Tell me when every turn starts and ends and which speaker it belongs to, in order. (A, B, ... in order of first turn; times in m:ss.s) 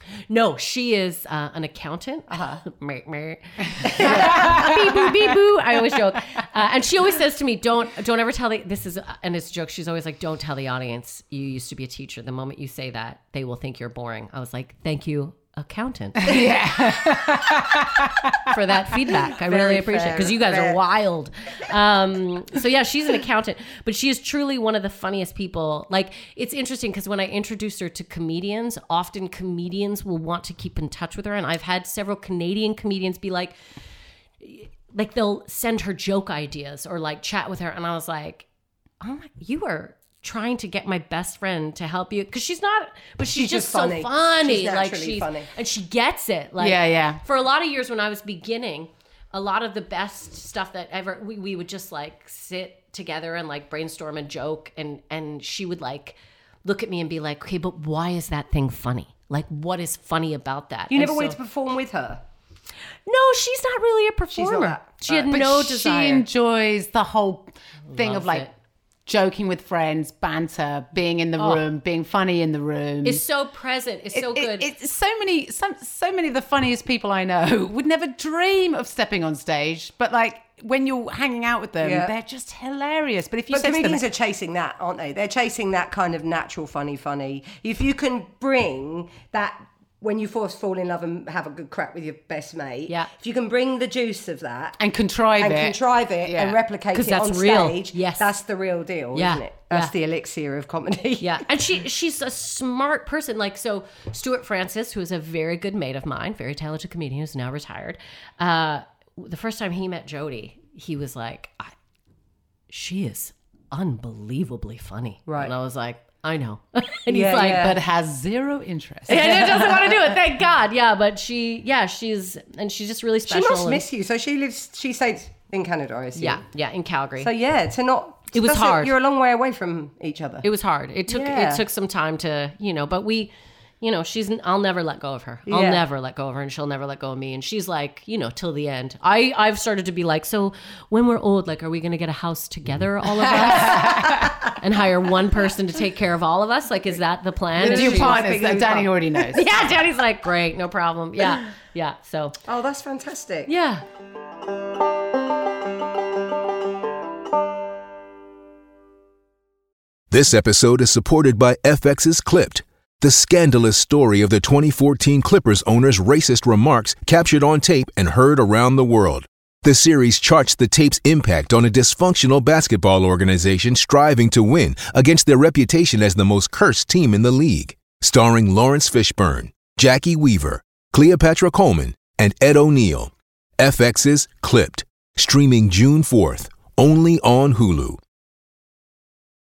0:00.3-0:16.3 A
0:02.3-0:02.6 B
0:03.9-0:04.7 B
0:04.0-0:05.0 C
0:16.2-0:18.6 C
0:18.5-0:33.6 A
0:19.4-0:20.8 B
0:34.4-0:38.5 A
0:39.0-1:01.4 A
0:43.3-0:45.5 B
0:46.6-0:47.2 C
1:00.9-1:02.2 B
1:03.1-1:06.3 A
1:04.3-1:05.3 B
1:05.3-1:08.5 C
1:07.9-1:08.5 A
1:09.1-1:13.2 C
1:11.4-1:11.6 A
1:13.0-1:14.7 A
1:14.1-1:24.0 C
1:21.8-1:22.1 B
1:23.5-1:34.8 B
1:34.8-1:36.6 C
1:35.4-1:41.4 B
1:36.9-1:38.3 A
1:39.2-1:39.9 A
1:41.2-1:51.7 A
1:52.7-1:57.7 A
1:55.3-1:55.5 B
1:57.1-1:57.8 B
1:57.6-1:59.7 C
1:59.1-2:03.8 A
1:59.1-2:00.0 B
2:03.3-2:06.4 B
2:06.2-2:07.3 A
2:07.2-2:10.5 B
2:08.3-2:08.9 A
2:10.4-2:28.3 A
2:11.1-2:11.6 B
2:15.5-2:15.8 B
2:23.1-2:24.3 C
2:27.6-2:29.4 B
2:27.6-2:29.5 C
2:29.3-2:32.4 A
2:32.5-2:33.5 B
2:33.5-2:33.8 A
2:40.1-3:08.0 D